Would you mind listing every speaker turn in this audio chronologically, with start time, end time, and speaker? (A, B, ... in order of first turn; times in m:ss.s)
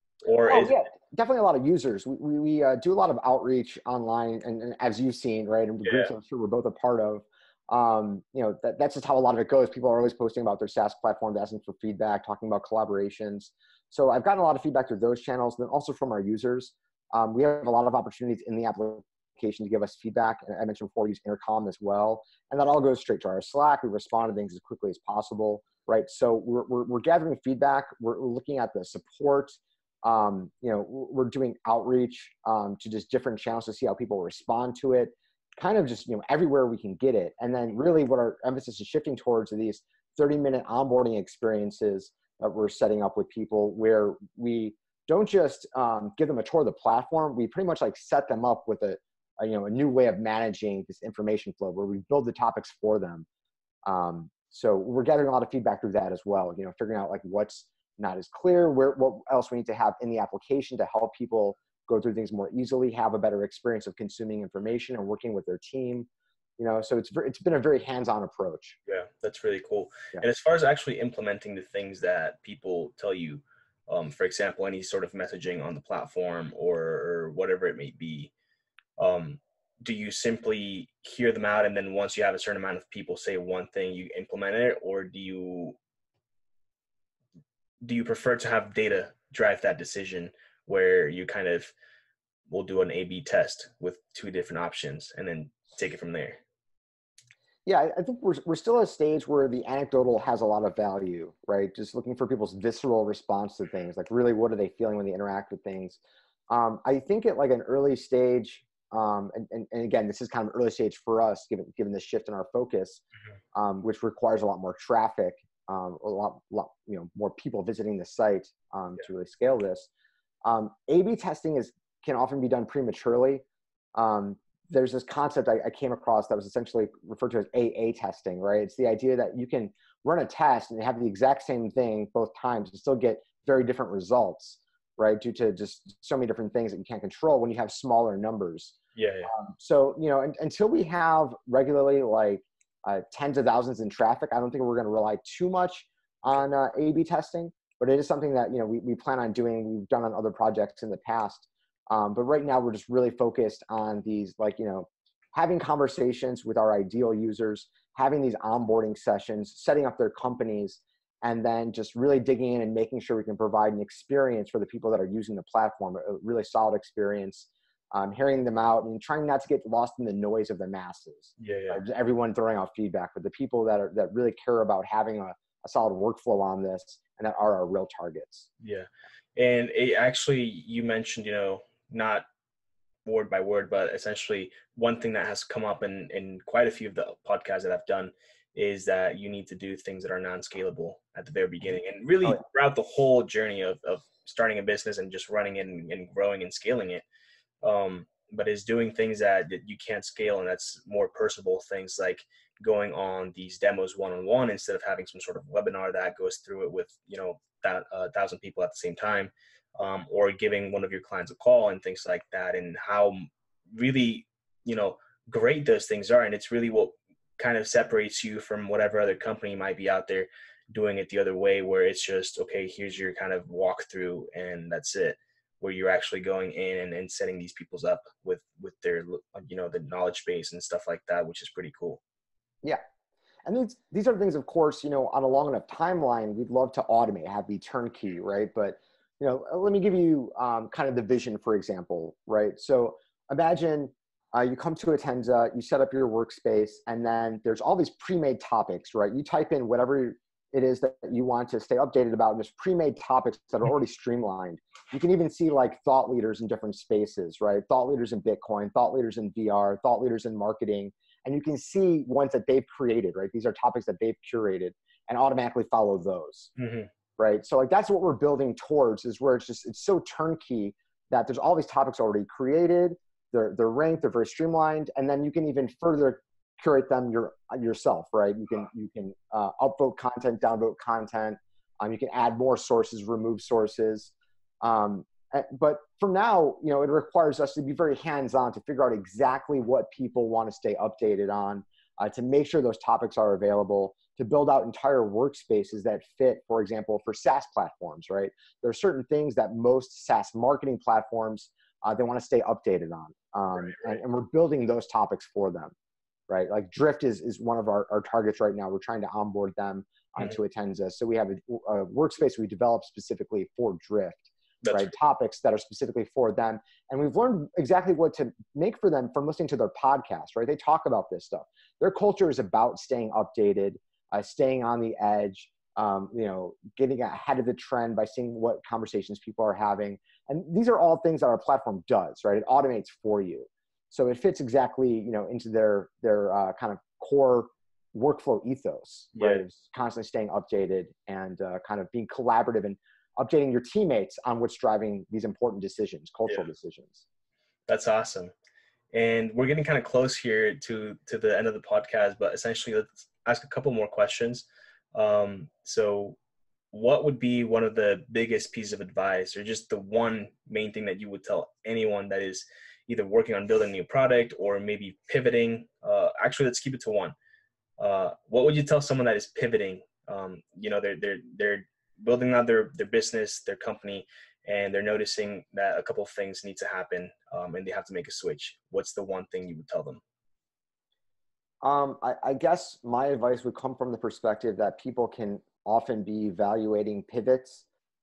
0:00.2-0:00.7 A
0:00.5-0:53.2 B
0:05.8-0:06.1 A
0:53.8-1:08.8 B
1:08.9-1:18.3 A
1:19.0-1:25.8 A
1:27.8-1:31.7 A
1:32.5-1:36.4 A
1:37.6-1:46.0 B
1:46.5-1:53.0 B
1:53.5-1:59.9 B
2:00.4-2:58.5 B
2:18.9-2:19.3 A
2:51.4-2:51.8 A
2:58.6-3:02.2 A
3:03.0-3:17.0 A
3:17.6-3:52.0 A
3:53.4-4:26.5 B
4:26.6-4:26.9 A
4:27.2-5:05.7 B
5:03.7-5:04.0 A
5:06.3-5:47.0 B
5:14.6-5:14.9 A
5:39.1-5:39.4 A
5:47.7-5:48.3 A
5:48.9-5:56.2 A
5:56.7-6:07.1 A
6:07.8-6:20.0 A
6:21.6-6:27.6 B